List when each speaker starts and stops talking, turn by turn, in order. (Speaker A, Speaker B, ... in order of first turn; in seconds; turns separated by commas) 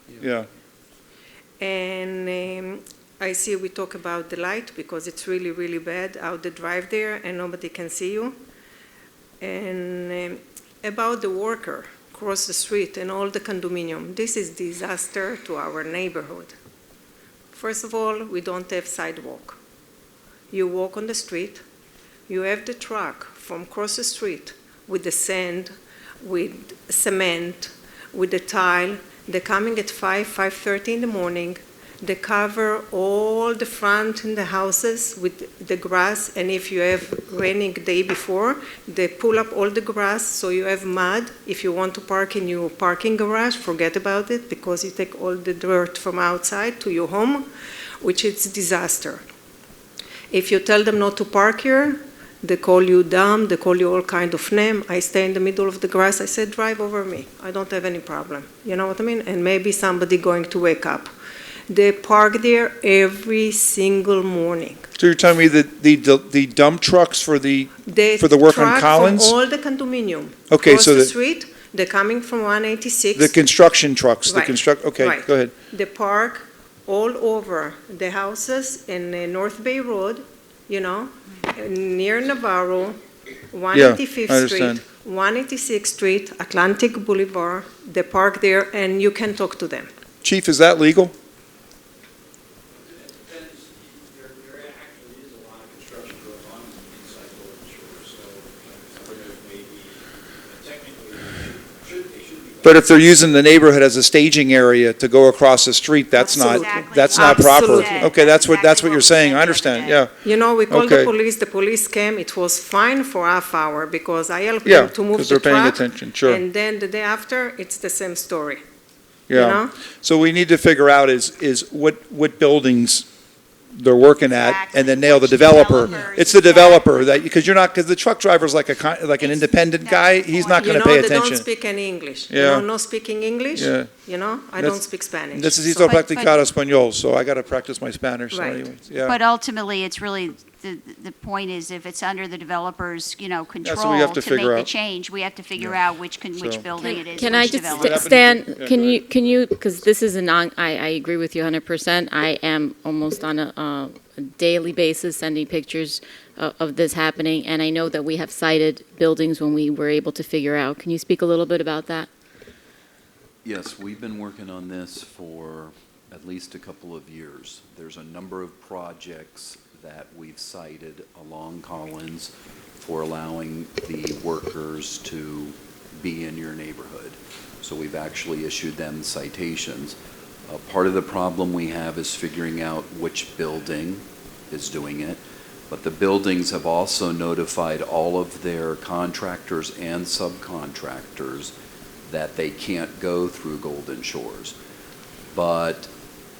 Speaker A: 0.2-0.5, Speaker B: 1.6-8.4, Speaker B: 9.4-16.5, Speaker B: 17.5-19.6, Speaker B: 20.5-21.6, Speaker B: 22.3-47.5, Speaker B: 48.0-49.2, Speaker B: 50.3-61.1, Speaker B: 61.7-64.8, Speaker A: 65.0-69.3, Speaker B: 67.8-73.3, Speaker A: 70.5-71.1, Speaker A: 73.1-75.5, Speaker B: 74.3-83.0, Speaker B: 83.5-89.9, Speaker A: 83.7-84.8, Speaker A: 90.2-91.1, Speaker C: 92.8-100.0, Speaker C: 100.5-102.7, Speaker A: 102.6-110.1, Speaker D: 106.1-110.0, Speaker B: 106.3-108.1, Speaker B: 110.2-118.6, Speaker A: 110.7-111.1, Speaker A: 114.6-116.4, Speaker A: 119.3-123.0, Speaker B: 119.3-119.7, Speaker A: 123.7-131.4, Speaker D: 124.3-127.1, Speaker D: 129.2-130.7, Speaker B: 130.6-136.4, Speaker A: 132.3-132.7, Speaker A: 133.5-133.9, Speaker A: 134.6-139.2, Speaker B: 138.3-138.7, Speaker D: 139.1-148.1, Speaker A: 143.6-144.7, Speaker A: 145.6-146.6, Speaker E: 146.8-162.1, Speaker A: 147.2-149.0, Speaker F: 163.4-179.9, Speaker F: 180.5-191.5, Speaker F: 192.1-194.5, Speaker F: 195.3-195.9